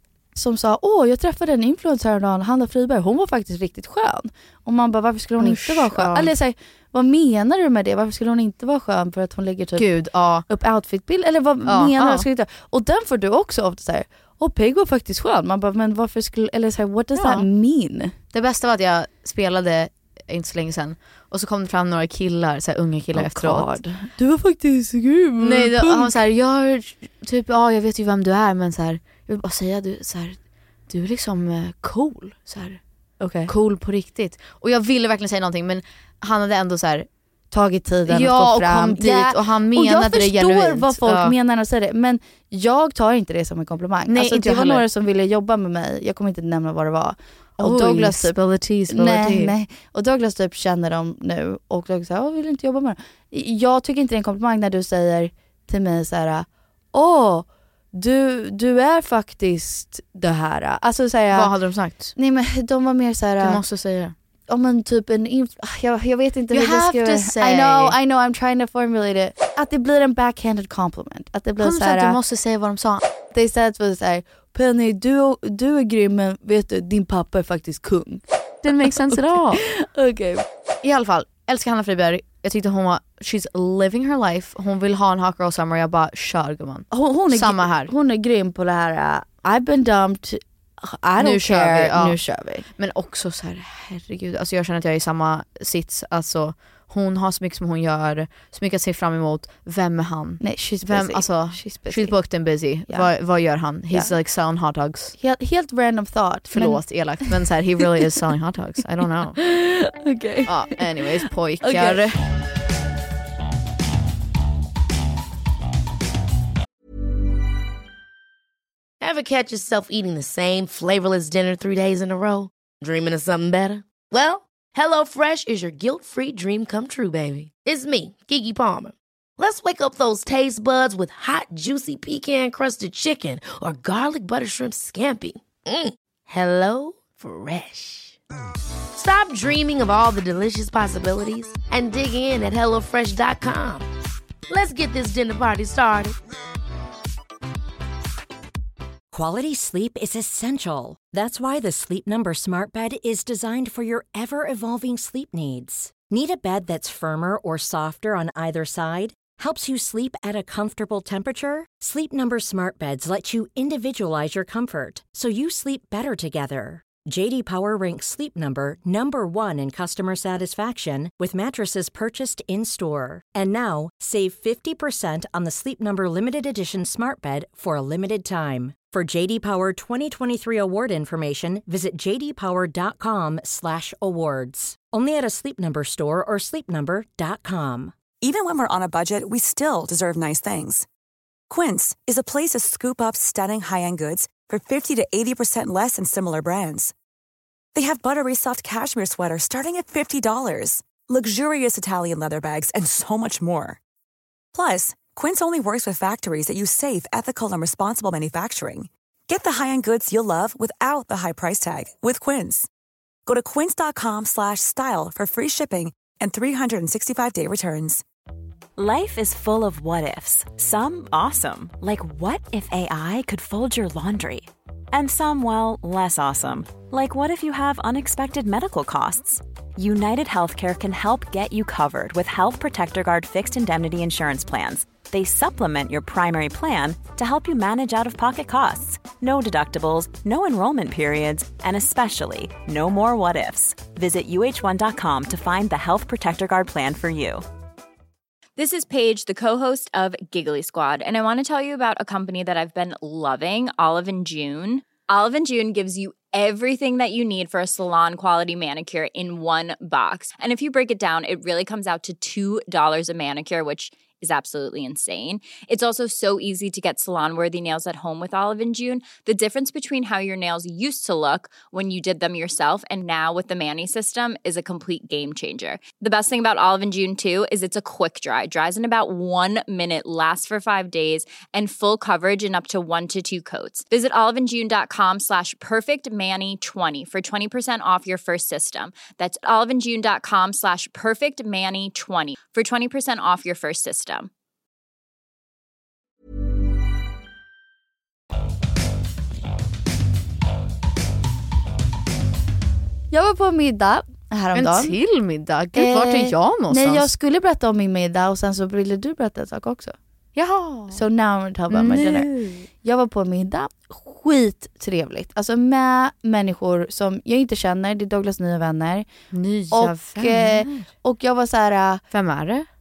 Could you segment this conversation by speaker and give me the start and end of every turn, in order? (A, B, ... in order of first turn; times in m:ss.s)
0:00.3-0:09.9 A
0:05.4-0:06.3 B
0:09.8-0:10.4 B
0:10.5-0:18.1 A
0:11.6-0:12.2 B
0:17.2-0:17.5 B
0:18.3-0:23.7 B
0:23.1-0:26.2 A
0:25.4-0:30.4 B
0:30.9-0:32.8 B
0:33.2-0:33.5 A
0:33.4-0:37.1 B
0:37.5-0:48.3 A
0:38.1-0:41.3 B
0:44.1-0:44.8 B
0:47.6-0:49.5 B
0:48.9-1:01.5 A
1:01.3-1:02.1 B
1:02.1-1:03.6 A
1:03.4-1:04.1 B
1:04.5-1:12.2 A
1:06.5-1:08.0 B
1:11.6-1:13.0 B
1:13.3-1:18.2 A
1:18.6-1:19.6 B
1:18.8-1:20.4 A
1:20.8-1:27.9 B
1:26.9-1:32.7 A
1:31.2-1:32.2 B
1:32.8-1:45.1 B
1:40.4-1:42.2 A
1:45.2-1:47.4 A
1:46.5-1:49.4 B
1:49.4-1:52.0 A
1:50.4-1:52.2 B
1:59.0-2:18.2 C
2:18.9-2:23.9 C
2:24.5-2:26.2 C
2:29.1-3:07.9 D
3:08.2-3:10.8 E
3:11.5-3:16.9 E
3:17.7-3:23.8 E
3:24.5-3:32.7 E
3:33.2-3:38.0 E
3:38.8-4:07.4 F
4:08.6-4:54.3 G
5:03.1-5:05.0 A
5:04.5-5:07.1 B
5:05.7-5:09.9 A
5:10.3-5:11.0 B
5:10.9-5:19.1 A
5:11.7-5:12.7 B
5:19.3-5:20.9 B
5:19.7-5:22.0 A
5:22.1-5:22.6 B